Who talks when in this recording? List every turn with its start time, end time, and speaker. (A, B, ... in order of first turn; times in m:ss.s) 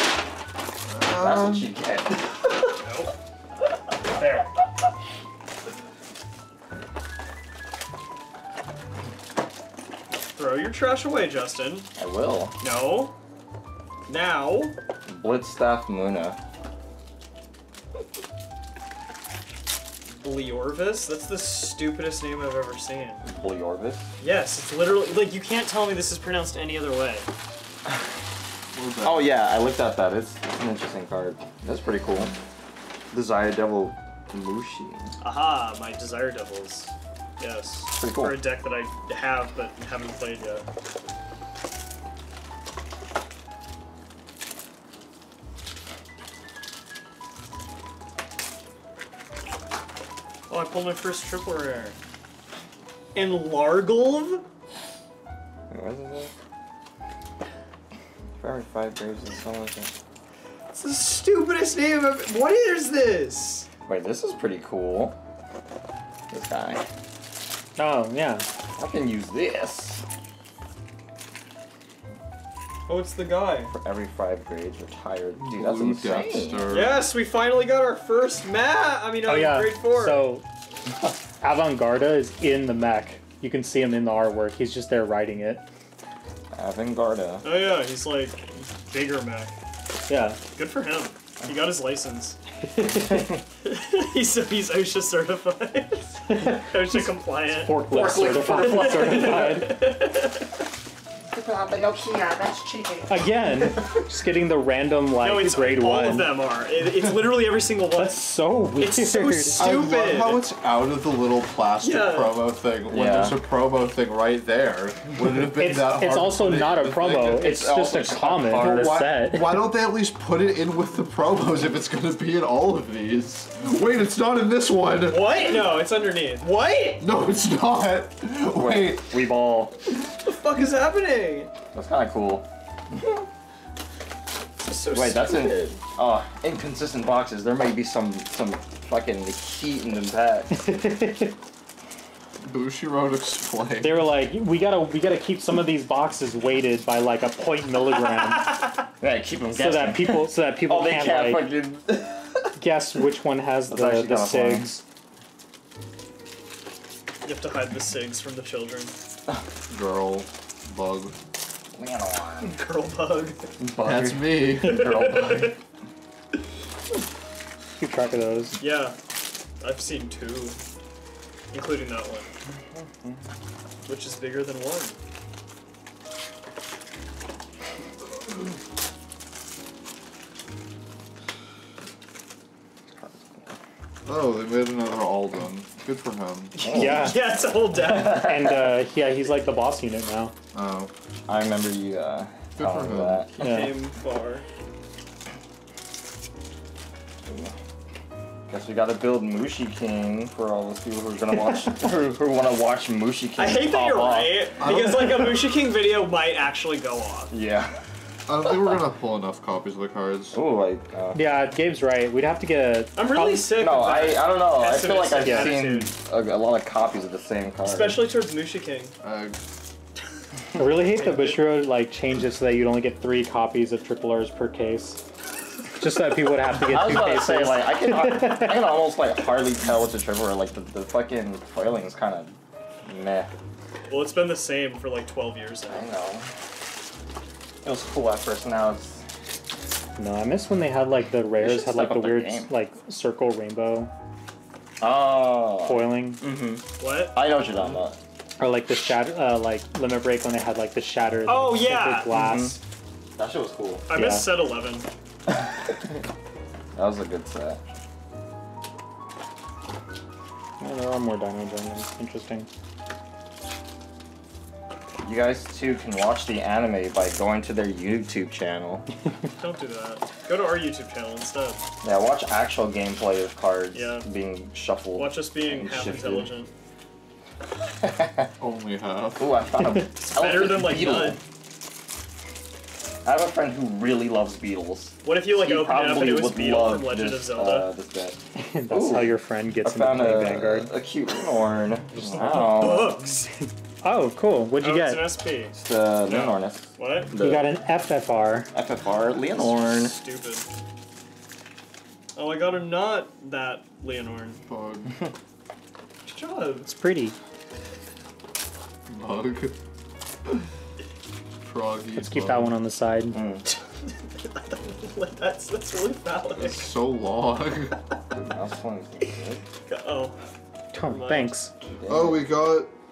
0:00.8-0:01.7 A
0:01.1-0:02.7 B
0:02.8-0:03.1 C
0:10.3-0:11.9 C
0:12.0-0:12.6 B
0:12.6-0:13.1 C
0:14.1-0:14.7 C
0:15.1-0:16.4 B
0:20.2-0:23.2 C
0:23.2-0:24.0 B
0:24.2-0:27.3 C
0:28.7-0:29.3 A
0:29.0-0:32.3 B
0:33.1-0:35.1 B
0:35.2-0:40.6 C
0:38.0-0:38.4 B
0:50.5-0:52.0 C
0:53.1-0:54.4 C
0:55.7-0:56.3 B
0:58.4-0:59.9 B
1:00.7-1:03.7 C
1:03.8-1:05.2 B
1:06.3-1:06.8 B
1:07.8-1:08.5 D
1:08.8-1:10.0 B
1:12.9-1:13.7 C
1:13.7-1:16.8 B
1:15.4-1:17.1 A
1:16.7-1:20.3 C
1:19.2-1:20.4 D
1:21.4-1:25.6 D
1:26.5-1:27.4 B
1:27.4-1:29.5 C
1:30.1-1:30.4 D
1:30.5-1:32.4 C
1:32.7-1:33.4 D
1:33.6-1:37.8 C
1:36.3-1:39.8 D
1:37.9-1:39.6 B
1:38.4-1:40.4 C
1:41.3-1:43.8 B
1:43.1-1:46.3 D
1:45.2-1:50.5 C
1:48.0-1:49.7 D
1:49.6-1:57.6 A
1:51.8-1:52.4 C
1:52.9-1:53.4 B
1:55.6-1:59.6 D
1:57.3-1:59.0 B
1:58.4-2:05.5 A
2:05.0-2:07.0 C
2:07.0-2:09.2 A
2:08.5-2:09.8 B
2:10.2-2:11.5 C
2:11.7-2:12.4 B
2:14.6-2:15.7 C
2:14.9-2:20.5 B
2:20.5-2:21.4 D
2:22.4-2:24.1 A
2:23.8-2:28.7 D
2:29.0-2:32.5 B
2:29.5-2:31.5 D
2:32.6-2:34.8 D
2:33.7-2:34.7 B
2:37.2-2:38.9 C
2:39.7-2:41.1 A
2:41.7-2:42.6 B
2:42.4-2:43.4 C
2:43.6-2:45.5 B
2:43.8-2:44.9 A
2:44.6-2:45.5 C
2:47.8-2:48.6 D
2:48.6-2:49.0 C
2:49.6-2:50.6 C
2:51.5-2:52.3 C
2:53.8-2:55.0 C
3:04.0-3:06.6 A
3:06.6-3:08.5 C
3:06.6-3:07.1 B
3:06.7-3:07.2 D
3:07.9-3:10.3 D
3:10.5-3:10.9 A
3:11.3-3:13.3 B
3:12.6-3:13.3 A
3:13.4-3:14.4 C
3:13.4-3:13.8 D
3:17.3-3:17.5 B
3:18.5-3:24.4 B
3:23.4-3:27.3 C
3:24.6-3:25.3 A
3:27.3-3:27.8 B
3:28.3-3:30.4 A
3:30.3-3:31.4 B
3:31.1-3:33.6 D
3:33.0-3:35.9 C
3:33.6-3:38.0 B
3:35.2-3:35.6 D
3:37.6-3:38.9 C
3:39.0-3:39.4 A
3:40.5-3:45.0 D
3:40.6-3:41.6 C
3:45.8-3:48.5 D
3:46.6-3:53.3 B
3:53.9-3:55.9 C
3:55.7-3:56.3 B
3:57.6-3:59.0 B
4:00.0-4:03.9 D
4:01.4-4:02.5 B
4:04.8-4:08.0 B
4:05.6-4:06.2 D
4:06.8-4:07.2 C
4:08.4-4:12.6 D
4:11.2-4:12.2 C
4:12.1-4:12.6 B
4:13.2-4:13.8 B
4:13.9-4:14.9 C
4:13.9-4:14.3 D
4:15.3-4:15.9 B
4:16.7-4:17.6 B
4:20.6-4:22.5 D
4:25.0-4:28.8 B
4:29.4-4:31.6 C
4:31.8-4:36.4 B
4:33.7-4:34.0 C
4:35.0-4:36.5 C
4:37.8-4:38.3 B
4:38.4-4:39.4 A
4:39.2-4:41.2 B
4:40.0-4:41.2 C
4:43.0-4:48.2 B
4:45.0-4:47.7 C
4:48.4-4:50.7 D
4:48.7-4:53.0 B
4:52.1-4:53.3 C
4:53.8-4:55.1 D
4:54.6-4:55.5 C
4:55.5-4:57.5 B
4:56.1-4:57.1 C
4:57.1-4:58.5 D
4:58.5-5:00.0 B
4:59.3-5:00.4 C
5:02.2-5:04.4 C
5:04.4-5:05.0 A
5:06.0-5:06.7 C
5:06.7-5:07.2 D
5:08.9-5:09.5 A
5:11.4-5:12.6 A
5:11.9-5:13.2 D
5:13.1-5:13.4 B
5:13.5-5:16.7 C
5:16.3-5:17.7 A
5:18.1-5:19.4 B
5:19.7-5:20.1 C
5:20.7-5:21.5 D
5:20.9-5:21.3 C
5:21.7-5:22.2 B
5:21.9-5:22.7 A